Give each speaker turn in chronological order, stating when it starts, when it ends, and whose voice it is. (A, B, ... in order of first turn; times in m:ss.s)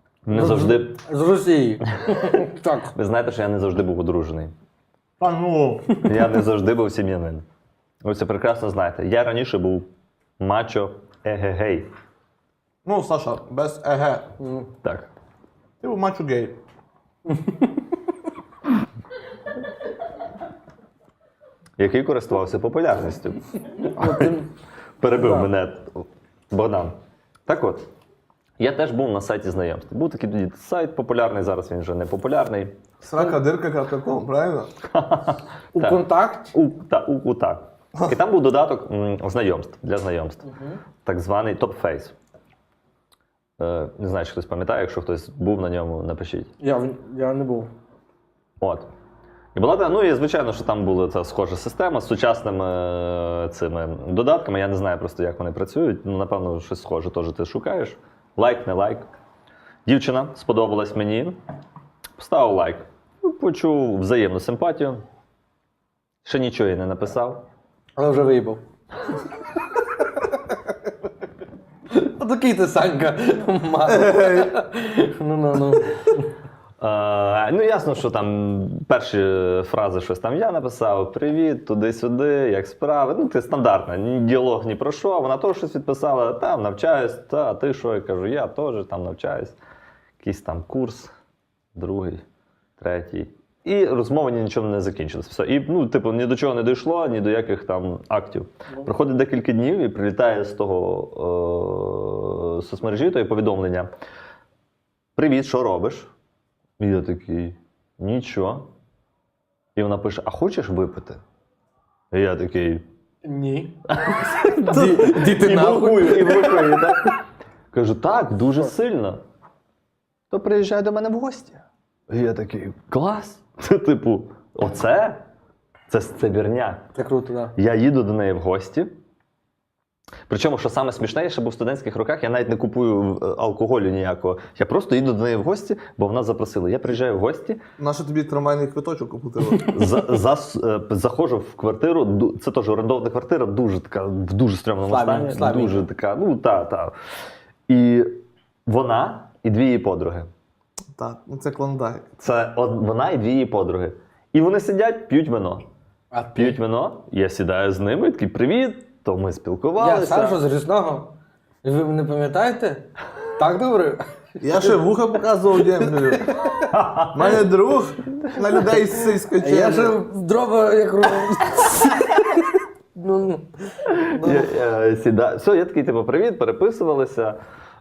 0:00.3-0:01.0 A
0:00.3-0:02.9 B
0:02.1-0:02.4 A
0:02.9-0:04.5 A
0:05.2-0:05.9 C
0:06.0-0:07.4 A
0:08.0-0:09.9 A
0:10.4-0:11.9 A
0:12.8-0:14.3 C
0:14.4-0:14.7 B
0:14.8-0:15.1 A
0:15.8-0:16.6 C
0:17.3-0:17.8 B
0:21.8-0:24.3 A
0:23.8-0:24.5 B
0:25.0-0:27.0 A
0:25.1-0:25.5 B
0:27.5-0:27.9 A
0:28.6-0:32.8 A
0:33.0-0:34.7 C
0:34.9-0:40.5 A
0:35.7-0:36.5 B
0:40.5-0:40.8 B
0:41.0-0:42.1 A
0:43.6-0:46.5 A
0:46.6-0:47.7 B
0:48.6-0:48.9 A
0:49.5-0:59.1 A
0:59.8-1:01.4 A
1:02.2-1:05.0 A
1:06.2-1:07.4 A
1:08.0-1:08.6 B
1:11.9-1:16.3 B
1:16.8-1:29.6 A
1:30.2-1:31.1 A
1:31.7-1:32.2 A
1:32.8-1:43.9 A
1:45.2-1:46.1 A
1:46.8-1:48.7 A
1:49.8-1:51.2 A
1:52.1-1:52.8 A
1:53.2-1:53.8 B
1:53.9-1:57.2 A
1:54.4-1:57.1 B
1:57.7-1:59.2 A
2:00.3-2:05.2 A
2:05.9-2:06.9 A
2:07.0-2:07.6 B
2:07.6-2:08.9 A
2:10.3-2:17.6 A
2:17.8-2:19.7 C
2:19.6-2:20.0 B
2:19.6-2:26.9 A
2:24.8-2:25.9 B
2:27.7-2:30.3 A
2:31.0-2:32.1 C
2:32.2-2:35.6 A
2:36.1-2:36.6 B
2:36.3-2:40.4 A
2:39.8-2:41.1 B
2:41.6-2:44.8 B
2:44.4-2:46.3 C
2:45.9-2:46.7 B
2:46.7-2:47.4 A
2:47.1-2:50.0 C
2:49.4-2:54.5 B
2:53.9-2:57.4 A